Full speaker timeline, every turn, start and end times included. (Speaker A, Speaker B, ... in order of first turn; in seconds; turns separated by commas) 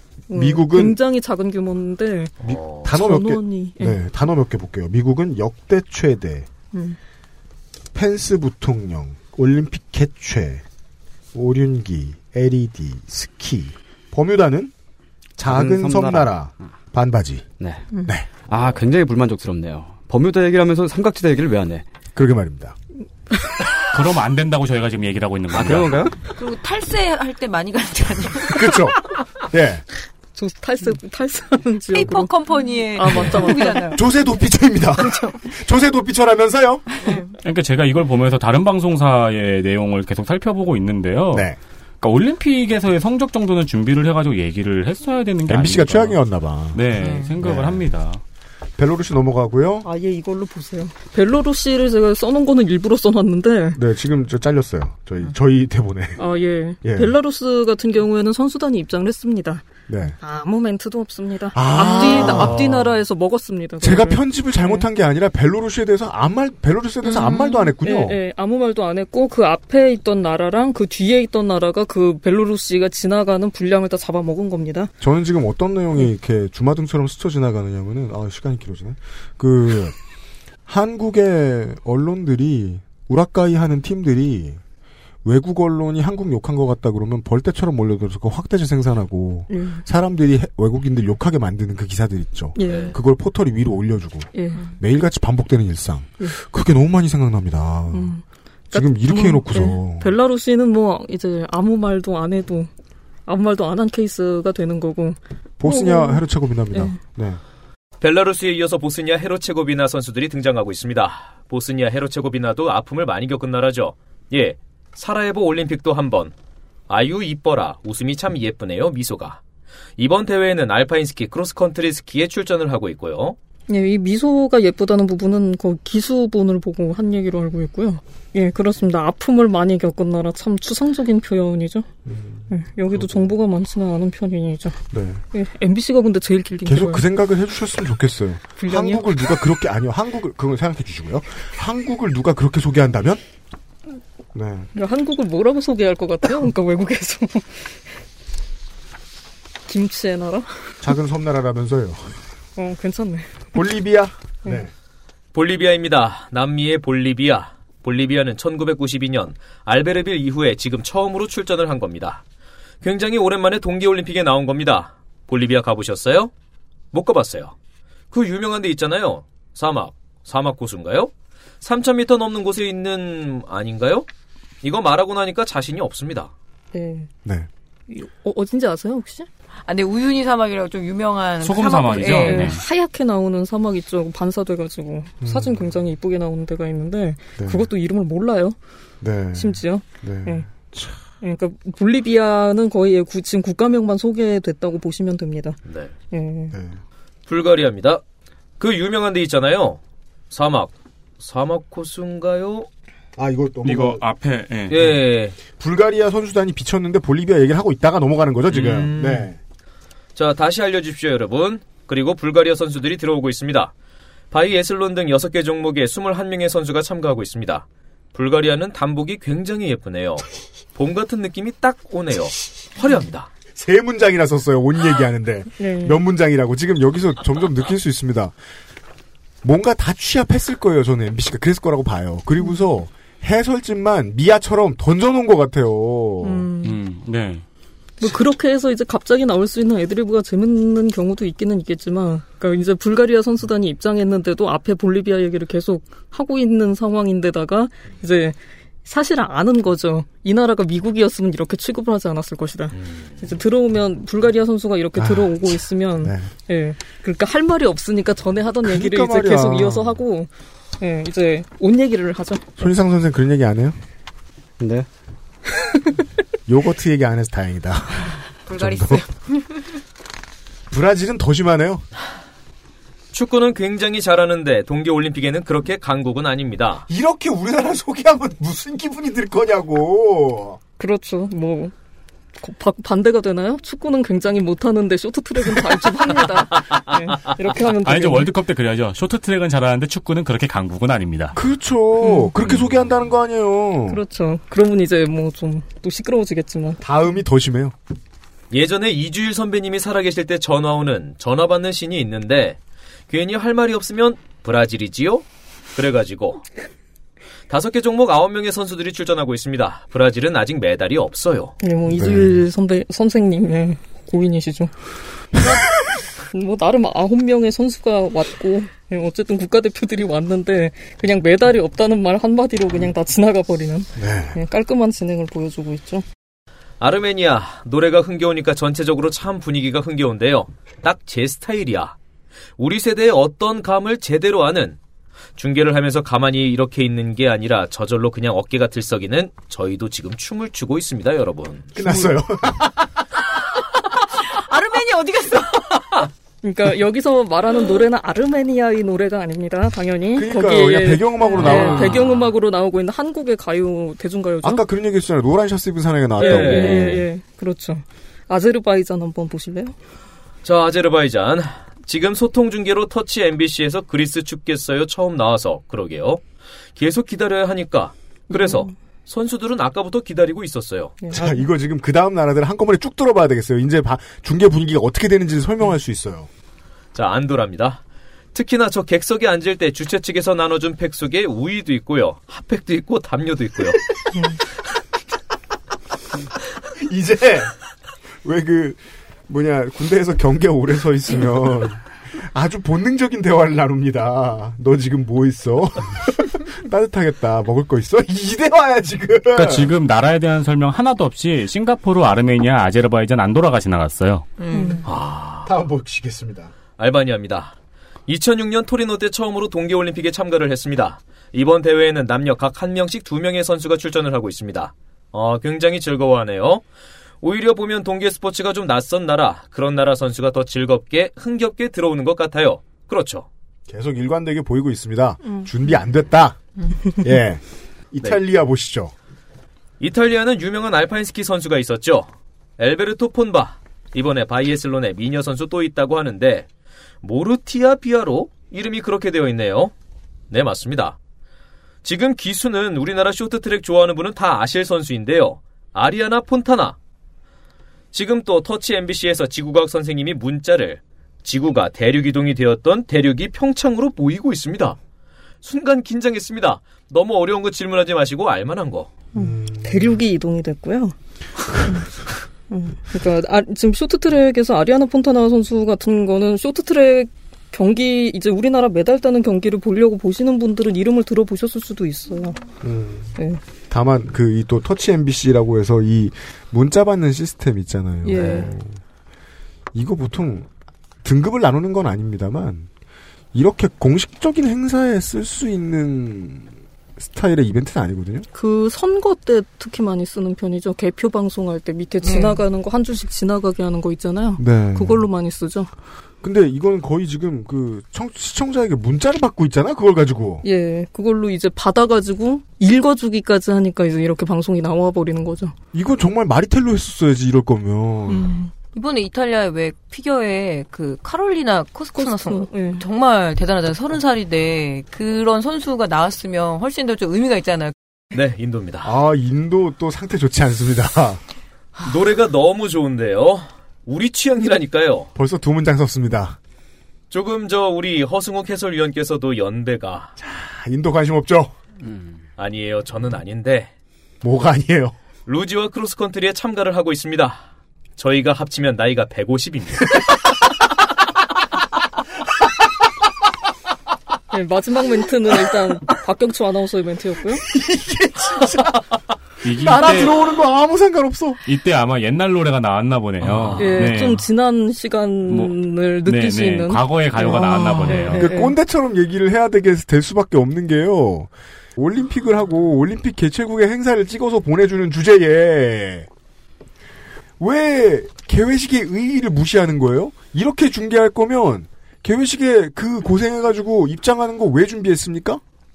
Speaker A: 0.3-2.3, Speaker B: 0.3-1.0, Speaker C: 2.4-2.9, Speaker B: 2.4-6.5, Speaker A: 2.9-4.0, Speaker B: 7.9-10.6, Speaker B: 11.3-14.7, Speaker B: 15.4-17.5, Speaker D: 15.4-16.3, Speaker D: 17.6-17.9, Speaker D: 18.5-21.9, Speaker B: 22.1-22.8, Speaker E: 23.9-26.1, Speaker D: 25.5-26.1, Speaker F: 26.4-28.9, Speaker B: 28.4-29.8, Speaker A: 30.4-34.0, Speaker F: 31.9-34.0, Speaker B: 33.9-36.9, Speaker F: 35.0-35.4, Speaker F: 37.0-37.3, Speaker E: 37.4-46.2, Speaker B: 41.3-41.6, Speaker B: 45.5-46.9, Speaker E: 46.7-48.2, Speaker F: 47.0-47.3, Speaker B: 47.4-47.9, Speaker B: 48.8-49.9, Speaker A: 49.8-53.8, Speaker B: 53.8-56.2, Speaker A: 56.2-59.6, Speaker B: 56.8-57.1, Speaker B: 59.9-60.2, Speaker A: 60.2-64.8, Speaker B: 61.5-62.9, Speaker F: 61.8-62.5, Speaker B: 63.8-68.2, Speaker A: 67.1-74.9, Speaker F: 67.2-67.5, Speaker B: 75.0-80.0, Speaker B: 80.7-84.6, Speaker B: 85.2-98.2, Speaker A: 89.5-89.8, Speaker A: 92.6-93.0, Speaker C: 92.6-92.9, Speaker A: 94.3-94.7, Speaker A: 97.9-102.7, Speaker B: 98.7-100.1, Speaker A: 103.3-107.0, Speaker B: 105.6-107.4, Speaker C: 108.0-116.3, Speaker C: 116.9-119.4, Speaker C: 120.0-123.4, Speaker A: 123.7-131.9, Speaker B: 132.1-133.3, Speaker A: 132.5-134.8, Speaker B: 134.9-135.2, Speaker A: 135.3-137.1, Speaker B: 136.7-143.2, Speaker A: 138.6-139.1, Speaker B: 144.3-144.7, Speaker A: 144.8-147.7, Speaker A: 149.7-150.7, Speaker B: 150.8-152.2, Speaker A: 152.6-153.4, Speaker B: 153.5-154.7, Speaker C: 155.3-162.2, Speaker C: 162.8-166.3, Speaker C: 166.9-167.5, Speaker C: 168.1-174.1, Speaker C: 174.6-176.3, Speaker A: 176.7-177.1, Speaker A: 177.9-179.3, Speaker F: 179.7-182.6, Speaker E: 181.4-182.6, Speaker A: 182.2-188.6, Speaker B: 185.2-185.7, Speaker B: 187.4-187.6, Speaker B: 189.0-191.0, Speaker A: 189.3-190.5, Speaker A: 191.2-195.6, Speaker C: 195.7-195.9, Speaker A: 196.1-196.6, Speaker B: 196.5-196.8, Speaker C: 197.3-198.0, Speaker C: 198.6-199.8, Speaker C: 200.3-202.7, Speaker B: 203.2-204.0, Speaker E: 203.6-205.0, Speaker C: 204.7-205.4, Speaker B: 205.5-209.4, Speaker C: 208.5-209.3, Speaker C: 210.2-213.7, Speaker C: 214.3-223.3, Speaker B: 223.6-228.3, Speaker A: 225.6-226.0, Speaker B: 229.4-236.5, Speaker A: 236.2-236.7, Speaker E: 236.6-237.4, Speaker A: 238.0-262.7, Speaker B: 255.0-256.3, Speaker B: 258.6-260.0, Speaker B: 262.6-263.8, Speaker D: 264.6-264.9, Speaker B: 266.5-269.0, Speaker F: 268.5-269.8, Speaker B: 270.7-271.9, Speaker C: 273.1-276.9, Speaker B: 276.9-280.6, Speaker A: 280.8-281.7, Speaker A: 282.4-288.3, Speaker E: 287.8-291.4, Speaker B: 291.3-294.0, Speaker A: 292.0-292.3, Speaker A: 293.9-296.8, Speaker B: 296.8-297.8, Speaker C: 298.5-302.6, Speaker C: 303.1-306.4, Speaker C: 307.5-311.6, Speaker A: 311.6-314.7, Speaker B: 311.9-312.4, Speaker A: 316.3-326.1, Speaker B: 324.0-324.4, Speaker C: 326.8-332.0, Speaker C: 332.6-334.8, Speaker C: 335.4-341.8, Speaker B: 341.8-342.7, Speaker F: 344.0-345.9, Speaker A: 346.4-354.6, Speaker B: 350.1-352.1, Speaker F: 351.4-351.8, Speaker B: 354.4-357.0, Speaker A: 356.2-359.7, Speaker C: 356.2-357.0, Speaker C: 360.4-366.2, Speaker C: 366.8-370.9, Speaker A: 368.3-368.7, Speaker A: 371.0-371.5, Speaker B: 371.1-376.3, Speaker C: 376.9-377.8, Speaker C: 378.3-383.9, Speaker B: 386.8-387.5, Speaker B: 388.2-399.7, Speaker E: 399.3-404.3, Speaker F: 404.4-404.9, Speaker A: 404.5-404.8, Speaker C: 404.9-405.5, Speaker B: 405.4-406.5, Speaker C: 406.8-407.6, Speaker C: 408.1-416.6, Speaker C: 417.2-423.3, Speaker B: 423.7-426.4, Speaker B: 426.9-428.9, Speaker C: 429.8-436.5, Speaker C: 437.0-439.7, Speaker C: 440.3-441.0, Speaker C: 441.8-446.8, Speaker C: 447.9-454.8, Speaker C: 455.4-458.9, Speaker B: 459.1-460.0, Speaker A: 459.1-460.9, Speaker A: 462.5-472.4, Speaker B: 472.6-473.1, Speaker B: 473.7-478.8, Speaker A: 478.0-478.5, Speaker B: 479.7-480.5, Speaker B: 481.0-482.7, Speaker B: 483.3-488.3, Speaker A: 488.3-495.7, Speaker F: 492.0-492.4, Speaker B: 494.4-495.1, Speaker B: 496.2-500.4, Speaker A: 500.4-505.5, Speaker B: 505.7-508.3, Speaker A: 508.1-508.5, Speaker F: 508.7-517.7, Speaker A: 512.0-512.8, Speaker C: 518.1-518.9, Speaker B: 518.8-521.2, Speaker C: 521.8-525.1, Speaker B: 525.1-526.4, Speaker C: 527.1-530.1, Speaker B: 530.2-531.5, Speaker C: 532.4-533.7, Speaker B: 534.2-534.9, Speaker C: 535.3-537.4, Speaker C: 538.0-540.0, Speaker A: 544.3-547.5, Speaker B: 547.5-548.8, Speaker E: 549.4-550.2, Speaker B: 549.5-551.4, Speaker E: 551.5-554.2, Speaker C: 553.3-553.6, Speaker A: 553.6-558.5, Speaker E: 555.3-558.3, Speaker B: 558.1-566.1, Speaker B: 567.4-575.4